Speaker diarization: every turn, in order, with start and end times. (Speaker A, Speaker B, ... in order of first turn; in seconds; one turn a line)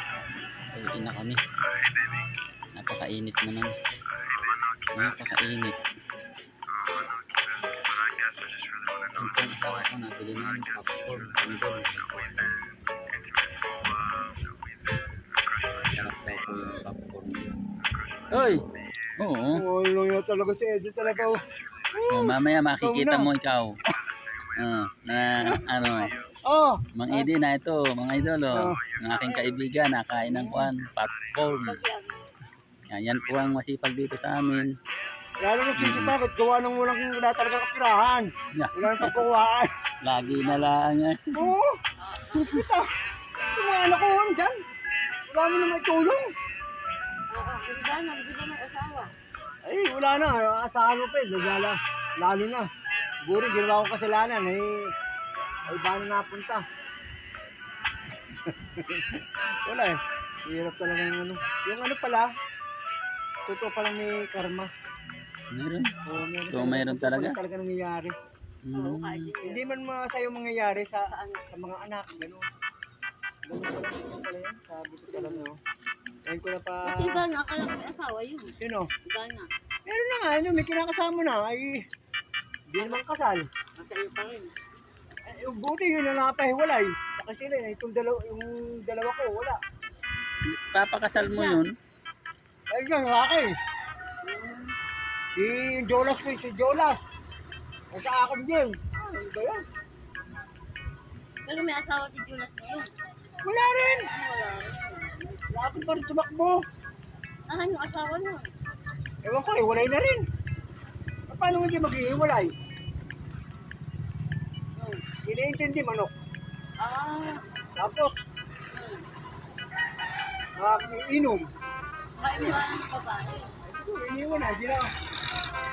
Speaker A: 0.7-1.4
Speaker A: 2.8-3.7
Speaker A: 4.9-5.8
Speaker A: 9.1-12.5
Speaker A: 15.9-17.5
Speaker A: 18.3-18.6
Speaker A: 19.2-19.6
Speaker B: 19.6-21.4
Speaker B: 21.9-23.3
Speaker A: 22.1-23.7
Speaker A: 24.6-26.1
Speaker B: 26.5-27.3
Speaker A: 26.9-31.8
Speaker B: 28.5-28.8
Speaker C: 29.2-29.5
Speaker B: 30.3-30.7
Speaker C: 31.6-32.2
Speaker A: 32.9-34.7
Speaker B: 35.4-39.7
Speaker A: 35.8-36.1
Speaker A: 38.5-39.2
Speaker A: 40.0-41.4
Speaker B: 41.3-41.8
Speaker C: 42.0-42.7
Speaker B: 42.3-42.9
Speaker B: 43.5-44.6
Speaker B: 45.3-46.3
Speaker C: 47.3-49.1
Speaker B: 49.6-52.7
Speaker B: 53.2-54.9
Speaker B: 55.7-56.6
Speaker B: 58.5-59.0
Speaker B: 59.6-62.3
Speaker B: 63.5-64.7
Speaker A: 65.5-67.4
Speaker B: 66.1-68.2
Speaker A: 68.7-69.3
Speaker C: 68.7-69.7
Speaker B: 69.4-72.5
Speaker C: 71.1-71.5
Speaker B: 73.5-75.6
Speaker C: 75.1-75.5
Speaker B: 76.3-77.2
Speaker C: 76.8-79.5
Speaker B: 78.6-78.9
Speaker B: 79.9-81.8
Speaker B: 82.7-83.5
Speaker C: 82.8-83.0
Speaker C: 83.8-84.5
Speaker B: 85.3-89.6
Speaker A: 90.5-91.7
Speaker C: 91.2-91.7
Speaker B: 92.7-93.5
Speaker C: 94.2-94.8
Speaker B: 95.4-97.0
Speaker B: 97.9-99.6
Speaker C: 101.5-102.9
Speaker B: 103.4-104.1
Speaker C: 104.1-105.4
Speaker B: 105.5-106.6
Speaker C: 107.5-108.5
Speaker B: 109.2-110.2
Speaker B: 111.3-112.5
Speaker C: 114.8-115.0
Speaker B: 115.3-116.1
Speaker C: 116.8-117.5
Speaker B: 117.8-118.1
Speaker C: 118.7-119.1
Speaker B: 120.6-121.5
Speaker C: 122.2-123.5
Speaker B: 123.6-124.9